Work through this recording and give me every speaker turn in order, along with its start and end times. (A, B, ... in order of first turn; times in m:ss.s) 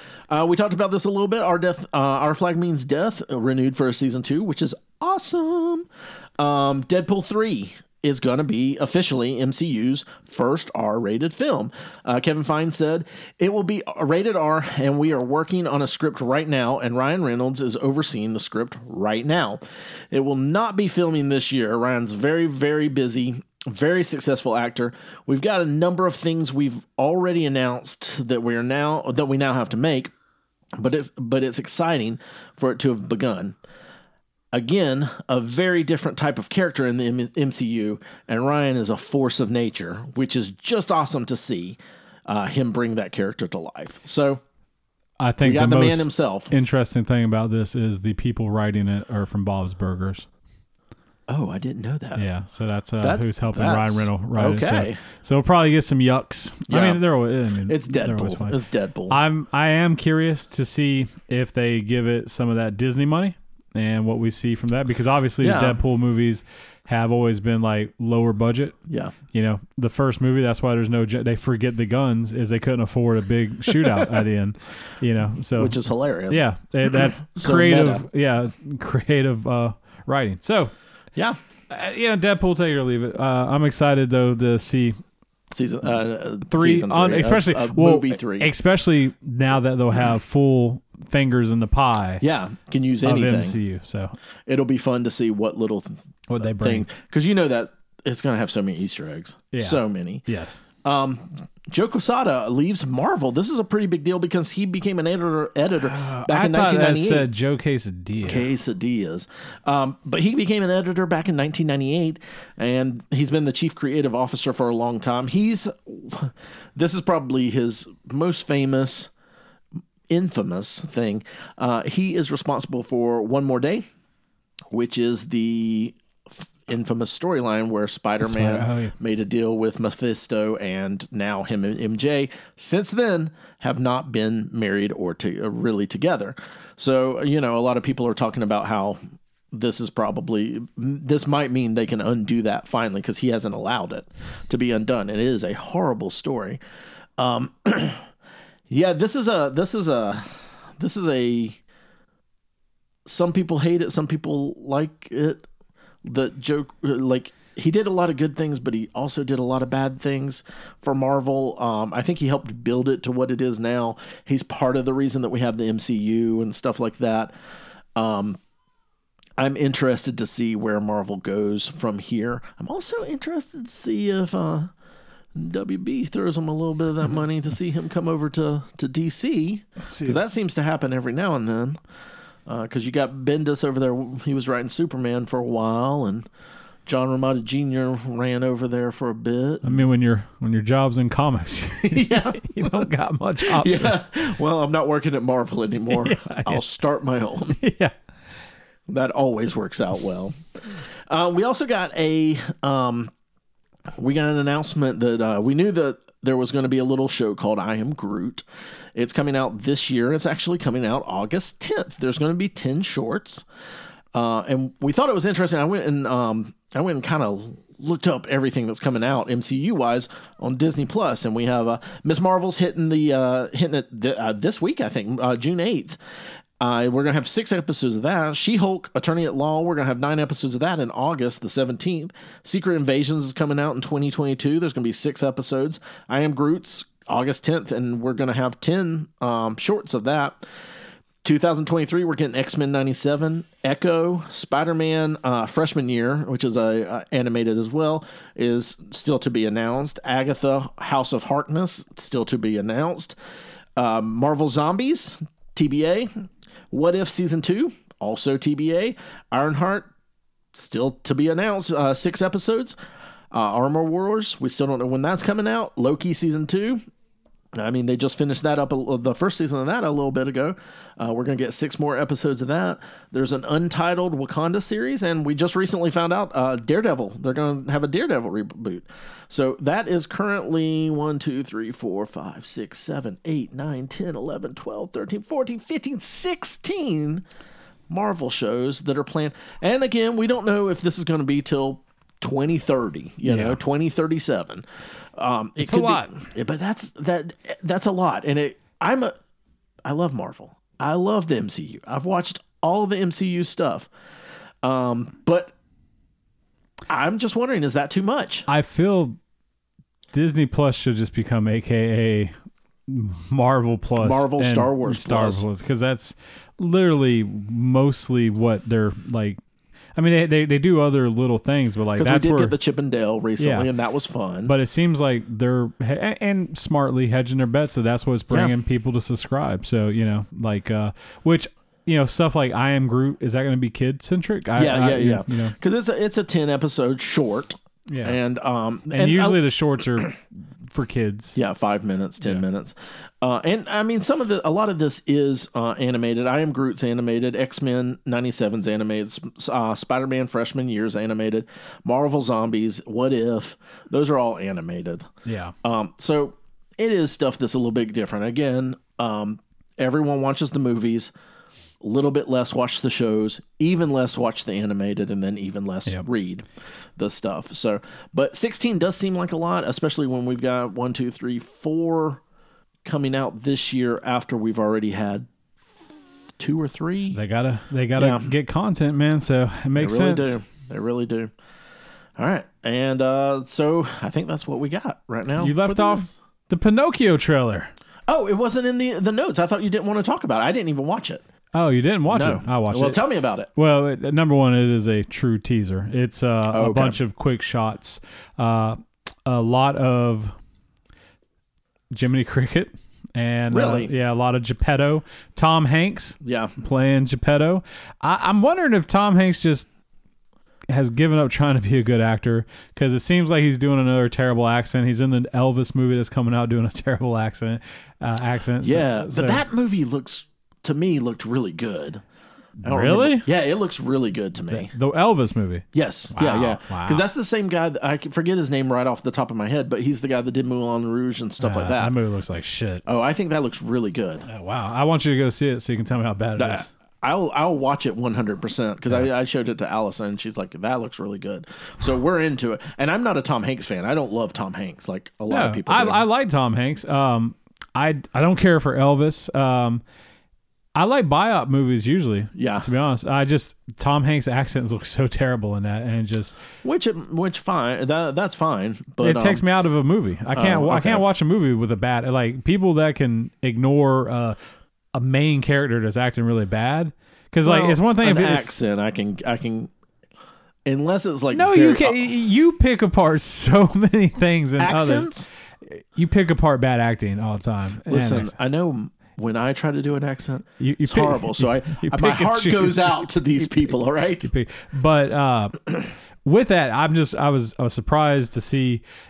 0:00.3-0:05.9 A
0:06.4-0:30.1 A
0:30.8-0:33.6 A
0:34.5-0:44.4 A
0:45.2-0:50.3 B
0:45.4-0:46.5 A
0:51.3-0:52.3 A
0:52.2-0:58.6 B
0:53.0-0:55.0 A
0:56.7-0:57.0 A
0:57.6-0:59.2 A
0:59.1-1:08.8 B
1:05.4-1:05.8 A
1:08.9-1:09.2 A
1:09.3-1:15.8 B
1:13.8-1:14.1 A
1:15.6-1:16.4 A
1:16.3-1:20.8 B
1:17.3-1:18.1 A
1:21.7-1:25.0 B
1:25.5-1:28.5 A
1:26.5-1:32.2 B
1:32.2-1:33.6 A
1:33.0-1:34.2 B
1:34.5-1:40.3 A
1:36.3-1:36.9 B
1:39.5-1:40.6 B
1:40.8-1:47.3 A
1:45.8-1:48.5 B
1:48.2-1:59.1 A
2:00.1-2:03.9 A
2:04.7-2:06.0 A
2:06.7-2:19.0 A
2:08.2-2:08.9 B
2:19.5-2:26.6 A
2:27.2-2:28.1 A
2:28.7-2:31.6 A
2:33.1-2:35.5 A
2:36.0-2:47.3 A
2:48.0-2:48.4 A
2:49.4-2:54.7 A
2:55.4-3:01.8 A
2:59.9-3:00.2 B
3:02.5-3:06.3 A
3:06.9-3:09.8 A
3:09.6-3:14.0 B
3:11.8-3:12.9 A
3:13.4-3:17.6 A
3:15.9-3:16.6 B
3:17.6-3:18.0 B
3:18.9-3:20.4 A
3:20.9-3:23.1 A
3:24.0-3:28.4 A
3:29.0-3:33.4 A
3:34.1-3:46.0 A
3:46.6-4:00.4 A
4:01.2-4:13.2 A
4:13.8-4:16.1 A
4:16.7-4:19.9 A
4:20.5-4:22.8 A
4:23.3-4:26.8 A
4:27.5-4:47.2 A
4:47.9-4:54.6 A
4:53.2-4:53.6 B
4:55.2-4:59.1 A
4:55.6-4:56.1 B
4:59.8-5:03.9 A
5:04.6-5:05.5 A
5:06.9-5:08.5 A
5:08.5-5:09.2 B
5:10.1-5:12.3 B
5:12.9-5:19.4 B
5:14.0-5:15.4 A
5:20.0-5:22.6 B
5:22.0-5:24.5 A
5:23.4-5:23.7 B
5:24.4-5:35.6 B
5:34.6-5:39.4 A
5:37.9-5:38.2 B
5:38.9-5:41.4 B
5:41.4-5:55.1 A
5:55.2-5:55.5 B
5:55.6-6:01.1 A
6:01.8-6:06.4 A
6:07.0-6:12.2 A
6:12.8-6:17.2 A
6:17.1-6:20.4 B
6:18.0-6:18.3 A
6:19.8-6:21.3 A
6:22.2-6:26.1 A
6:25.4-6:27.7 B
6:28.1-6:31.2 A
6:31.5-6:33.0 B
6:32.1-6:33.5 A
6:33.6-6:40.4 B
6:36.5-6:37.0 A
6:41.9-6:49.7 B
6:43.5-6:43.9 A
6:46.2-6:46.5 A
6:50.7-6:59.4 B
6:58.6-7:02.0 A
7:02.6-7:04.7 A
7:02.6-7:03.3 B
7:04.5-7:07.0 B
7:05.7-7:12.0 A
7:11.4-7:12.8 B
7:12.9-7:14.3 A
7:14.3-7:16.7 B
7:16.4-7:26.0 A
7:25.3-7:29.8 B
7:30.8-7:36.4 B
7:32.4-7:32.7 A
7:36.6-7:39.4 A
7:39.0-7:44.4 B
7:40.4-7:41.0 A
7:44.9-7:48.6 B
7:47.4-7:49.7 A
7:50.7-7:52.0 A
7:51.3-7:58.3 B
7:54.6-7:55.3 A
7:57.9-8:04.3 A
8:00.6-8:05.7 B
8:06.2-8:08.8 B